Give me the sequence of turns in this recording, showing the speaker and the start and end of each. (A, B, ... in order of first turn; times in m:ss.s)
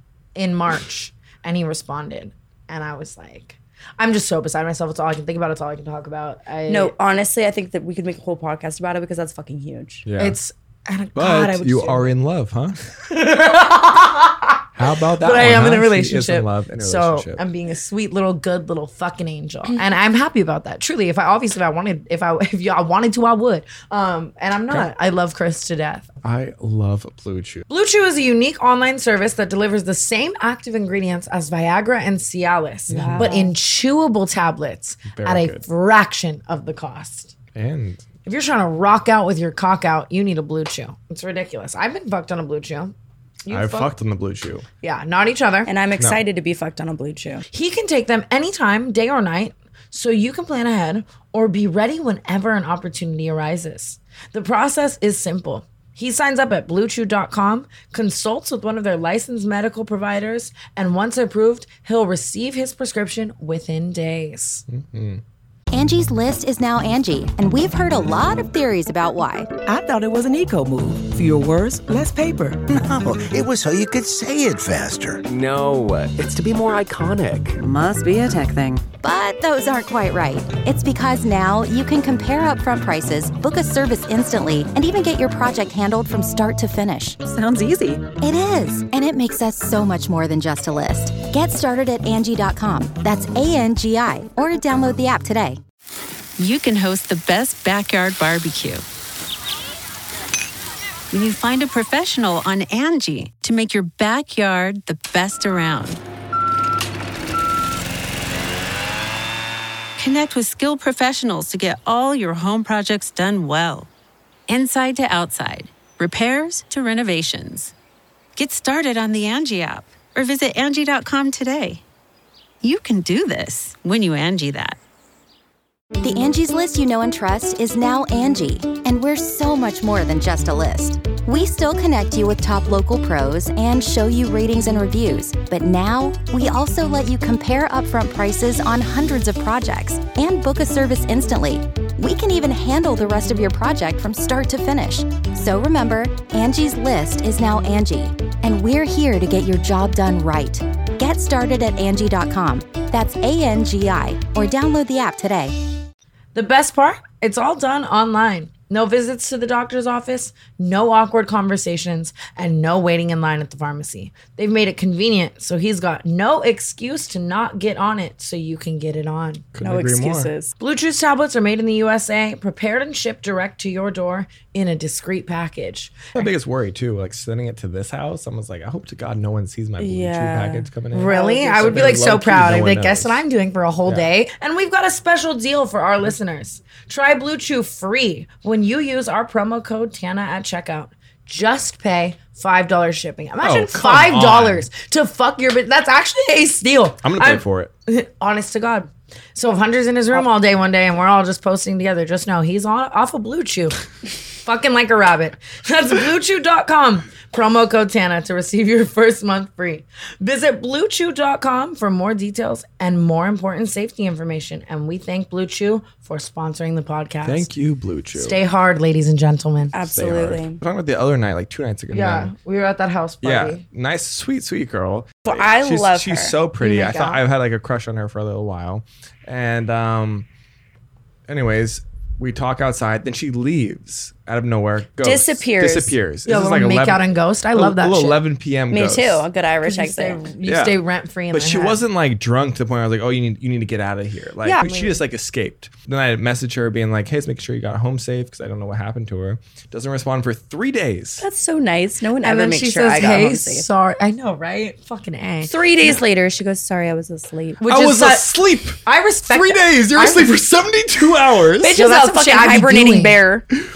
0:00.4-0:06.9 A
0:06.7-0:10.0 B
0:10.0-0:10.4 C
0:10.2-0:12.1 A
0:11.2-0:12.9 C
0:13.1-0:14.7 A
0:14.8-0:17.4 C
0:15.2-0:26.1 A
0:26.2-0:27.6 C
0:27.7-0:37.3 A
0:32.9-0:33.3 C
0:32.9-0:33.5 B
0:35.1-0:35.6 C
0:37.5-0:38.0 C
0:38.3-0:42.9 A
0:43.5-0:43.9 A
0:43.5-0:44.7 C
0:44.8-0:45.7 A
0:45.7-0:47.4 B
0:47.5-1:04.6 A
1:04.7-1:05.2 C
1:05.7-1:09.5 D
1:09.7-1:12.8 E
1:12.7-1:15.2 F
1:15.2-1:17.6 G
1:17.6-1:18.9 E
1:19.0-1:27.2 D
1:27.2-1:28.2 E
1:28.2-1:35.6 D
1:36.4-1:38.8 H
1:41.1-1:46.0 H
1:50.0-1:53.9 H
1:54.5-1:57.7 H
1:58.4-2:01.8 H
2:02.6-2:04.8 H
2:06.0-2:35.6 D
2:36.3-2:49.5 A
2:49.5-2:50.3 C
2:49.6-2:50.5 B
2:50.6-2:56.3 A
2:56.2-3:03.2 C
2:59.8-3:02.1 B
3:00.9-3:23.8 A
3:13.4-3:14.7 C
3:17.0-3:17.7 C
3:24.4-3:37.5 A
3:37.2-3:38.4 C
3:38.2-3:39.8 A
3:39.7-3:40.6 B
3:39.9-3:42.3 C
3:41.9-3:43.6 A
3:43.2-3:50.3 C
3:45.3-3:46.4 B
3:46.6-3:47.2 A
3:51.3-3:59.2 C
3:55.0-3:56.0 B
3:56.3-3:58.2 A
3:58.7-4:00.3 B
3:59.6-4:01.8 A
4:00.4-4:00.8 C
4:01.3-4:11.2 C
4:04.6-4:05.0 A
4:11.2-4:13.7 B
4:12.2-4:15.5 A
4:15.4-4:17.6 B
4:17.6-4:18.3 A
4:17.7-4:21.7 C
4:18.8-4:20.3 A
4:21.6-4:23.4 B
4:21.7-4:23.2 A